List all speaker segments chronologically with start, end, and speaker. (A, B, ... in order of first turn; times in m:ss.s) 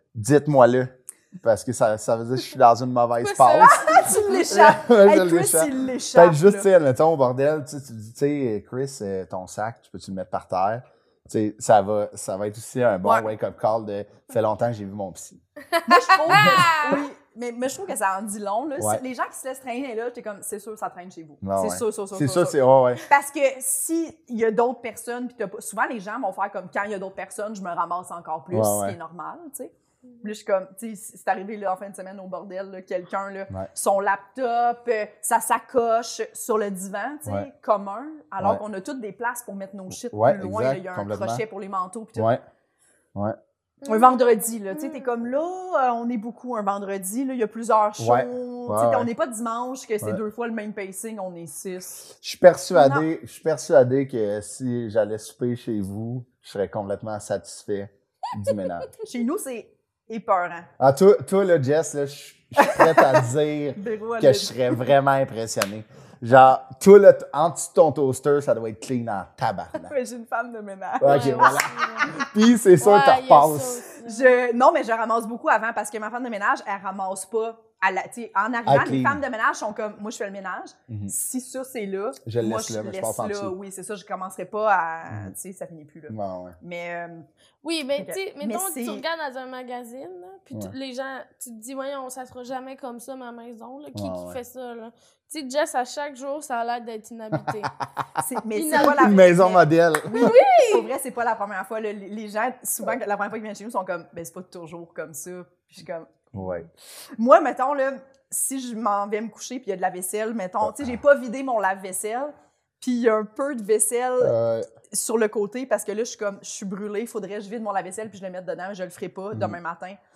0:00.1-0:15.4 A
0:03.2-0:04.4 B
0:03.6-0:06.7 C
0:13.0-0:13.3 C
0:15.8-0:42.3 C
0:16.3-0:16.9 A
0:16.4-0:17.0 B
0:21.4-0:23.0 A
0:28.5-0:29.0 A
0:40.1-0:41.4 A
0:42.2-0:42.4 A
0:43.8-0:45.1 B
0:43.8-0:52.1 C
0:48.0-0:49.1 A
0:52.2-0:58.9 A
0:52.7-0:53.0 C
0:59.0-1:00.7 C
1:00.8-1:09.9 A
1:02.6-1:03.2 C
1:03.8-1:04.9 C
1:09.8-1:12.2 C
1:11.0-1:13.8 A
1:11.0-1:12.1 B
1:12.8-1:14.4 B
1:14.0-1:27.3 C
1:18.6-1:19.2 A
1:20.9-1:21.1 A
1:22.2-1:23.6 A
1:26.1-1:26.6 A
1:27.6-1:37.7 B
1:28.0-1:29.0 C
1:33.9-1:34.4 A
1:37.3-1:37.6 A
1:38.2-1:46.5 C
1:38.5-1:39.2 B
1:38.7-1:40.4 A
1:40.1-1:40.9 B
1:46.3-1:46.7 A
1:47.2-1:54.4 C
1:50.6-1:51.0 A
1:54.2-1:54.7 A
1:54.9-2:00.0 C
1:59.3-1:59.6 A